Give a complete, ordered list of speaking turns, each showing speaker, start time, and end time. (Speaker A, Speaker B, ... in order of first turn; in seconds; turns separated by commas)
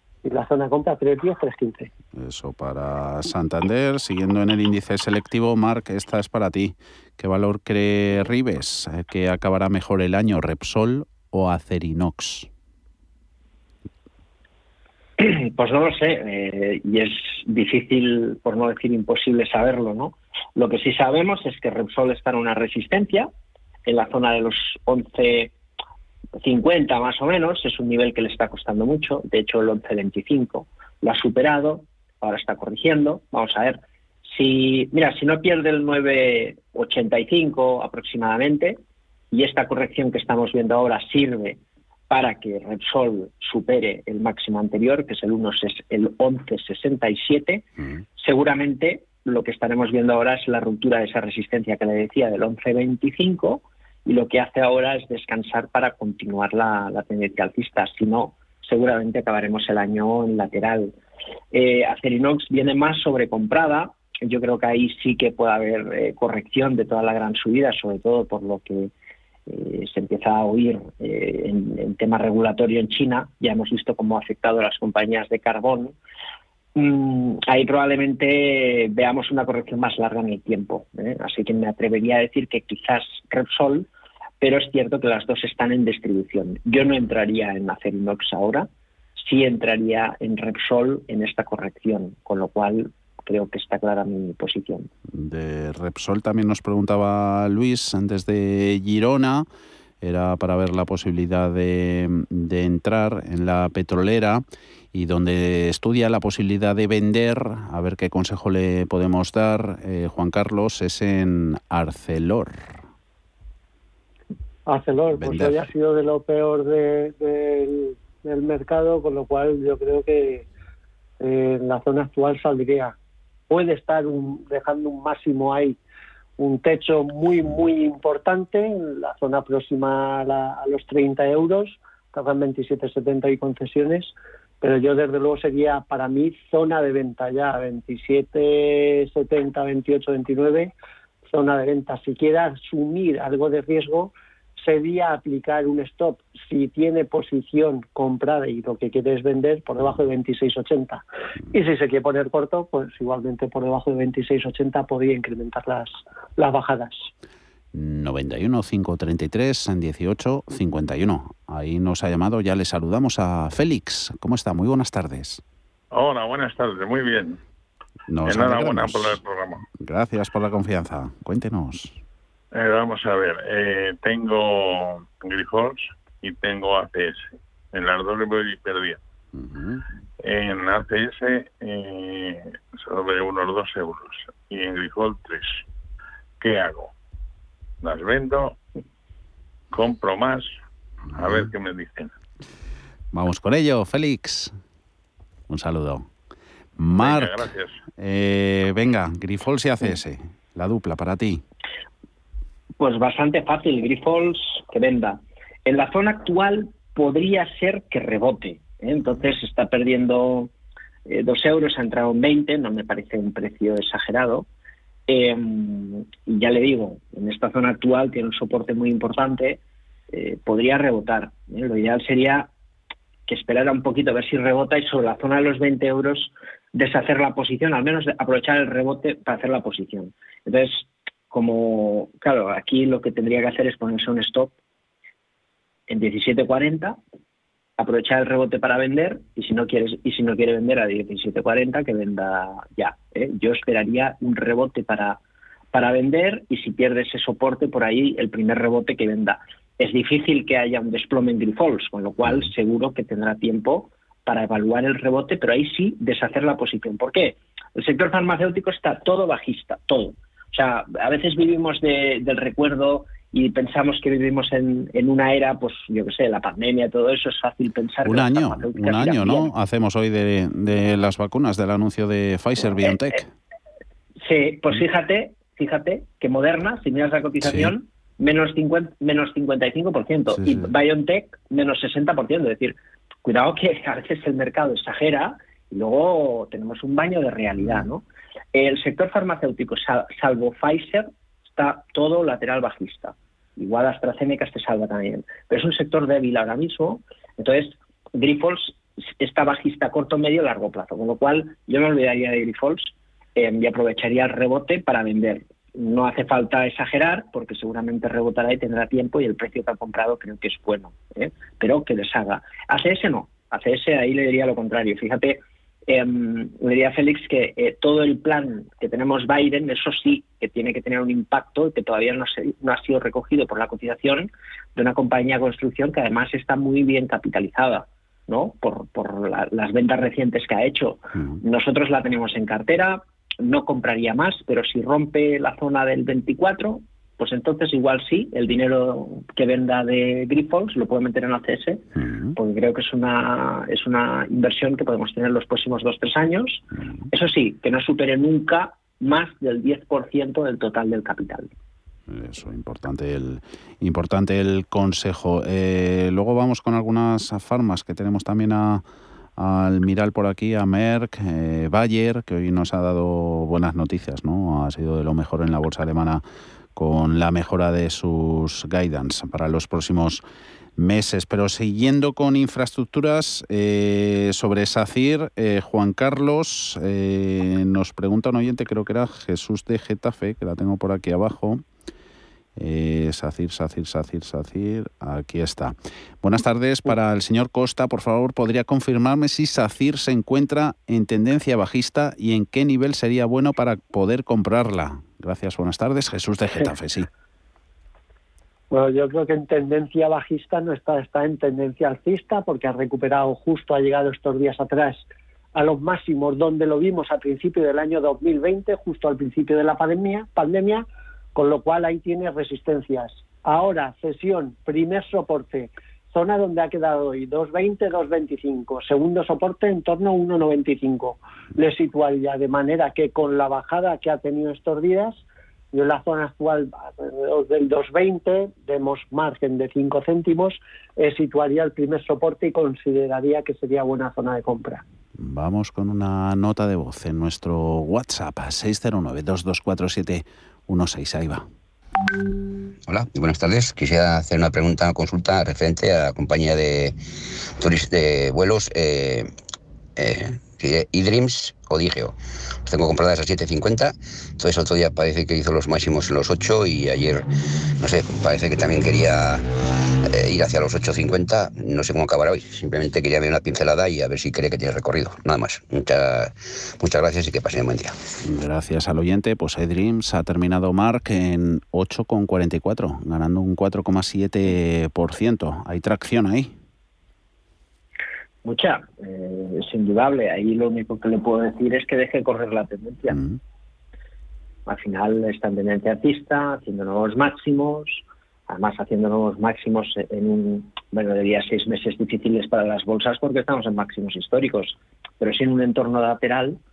Speaker A: 0.2-1.9, Speaker B: 2.1-12.5, Speaker C: 15.2-23.3, Speaker C: 23.9-25.5, Speaker C: 26.4-38.8, Speaker C: 39.3-47.6, Speaker C: 48.2-60.9, Speaker C: 61.5-68.9, Speaker C: 69.5-75.9, Speaker C: 76.7-83.9, Speaker C: 84.4-94.9, Speaker B: 95.1-99.5, Speaker B: 100.0-112.8, Speaker A: 114.7-120.4, Speaker B: 115.1-115.6, Speaker A: 121.2-122.9, Speaker A: 123.5-125.8, Speaker A: 126.4-140.7, Speaker A: 141.3-157.1, Speaker B: 157.7-165.4, Speaker D: 165.9-167.4, Speaker B: 168.1-169.2, Speaker D: 168.2-169.6, Speaker B: 169.7-172.0, Speaker D: 172.5-179.0, Speaker B: 179.3-179.8, Speaker D: 180.2-185.6, Speaker D: 186.4-186.9, Speaker D: 187.8-188.6, Speaker D: 189.7-190.5, Speaker D: 191.1-192.1, Speaker B: 193.1-194.5, Speaker B: 195.5-196.1, Speaker B: 196.8-197.4, Speaker D: 197.0-197.7, Speaker B: 198.0-201.4, Speaker C: 202.8-210.5, Speaker C: 211.1-214.5, Speaker C: 215.1-219.6, Speaker C: 220.1-222.5, Speaker C: 223.3-234.5, Speaker C: 235.9-237.0, Speaker C: 237.8-245.2, Speaker C: 245.7-269.5, Speaker B: 268.0-273.3, Speaker C: 274.2-288.0, Speaker B: 277.4-277.7, Speaker B: 280.3-280.7, Speaker C: 288.5-341.8, Speaker B: 341.9-342.4, Speaker C: 342.4-351.5, Speaker B: 352.1-358.8, Speaker B: 359.4-366.2, Speaker B: 366.7-370.2, Speaker B: 370.8-381.6, Speaker B: 382.6-397.1, Speaker A: 398.7-405.0, Speaker A: 405.5-434.8, Speaker B: 435.2-441.4, Speaker E: 442.9-447.0, Speaker E: 447.6-449.3, Speaker E: 449.9-457.3, Speaker E: 457.8-459.4, Speaker E: 460.1-468.0, Speaker B: 468.2-476.5, Speaker C: 478.4-483.2, Speaker B: 483.1-483.4, Speaker C: 484.6-496.6